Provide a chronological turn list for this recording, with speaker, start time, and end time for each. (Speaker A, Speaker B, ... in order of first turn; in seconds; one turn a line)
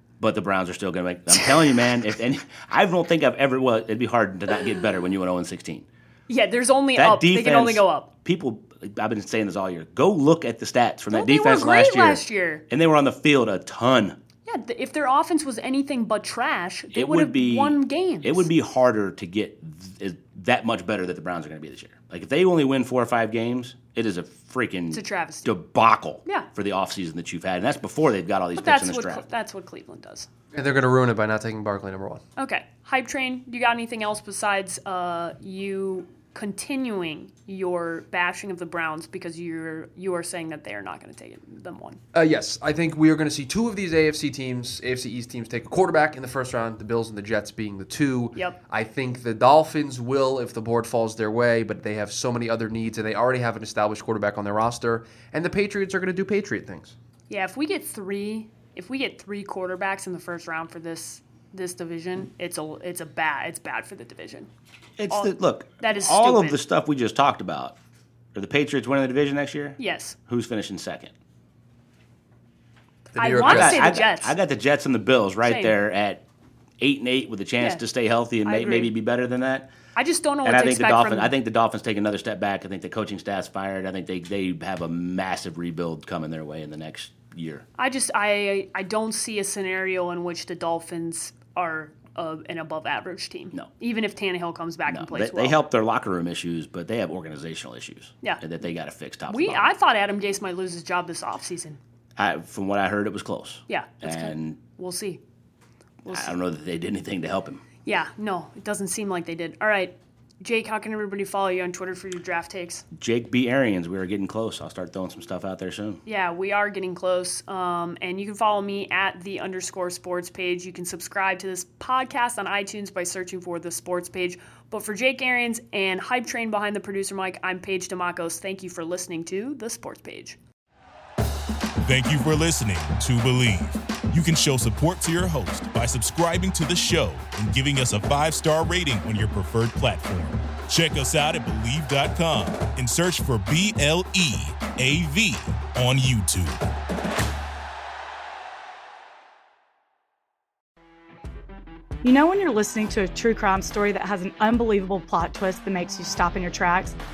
Speaker A: 0.2-5.9
Speaker B: 1.4-1.7
Speaker B: 6.3-8.1
Speaker A: 7.0-14.2
Speaker B: 11.1-12.6
Speaker B: 14.5-18.5
Speaker A: 16.9-29.2
Speaker B: 24.9-25.5
Speaker B: 28.6-30.3
Speaker C: 30.5-32.2
Speaker B: 32.4-42.0
Speaker C: 42.1-57.0
Speaker B: 57.3-64.5
Speaker A: 65.0-67.8
Speaker B: 65.1-66.6
Speaker A: 68.3-71.1
Speaker B: 69.8-70.2
Speaker C: 73.1-74.0
Speaker B: 73.2-74.3
Speaker A: 73.3-76.2
Speaker B: 75.4-75.8
Speaker A: 76.8-79.7
Speaker B: 78.5-78.9
Speaker B: 80.0-81.3
Speaker A: 80.4-87.7
Speaker B: 87.8-95.6
Speaker A: 94.9-99.7
Speaker B: 99.3-101.8
Speaker A: 102.2-104.6
Speaker B: 103.7-105.2
Speaker B: 106.0-106.3
Speaker A: 106.1-107.6
Speaker B: 107.8-112.8
Speaker A: 112.9-116.0
Speaker B: 116.1-130.4
Speaker D: 131.8-146.6
Speaker E: 152.0-157.0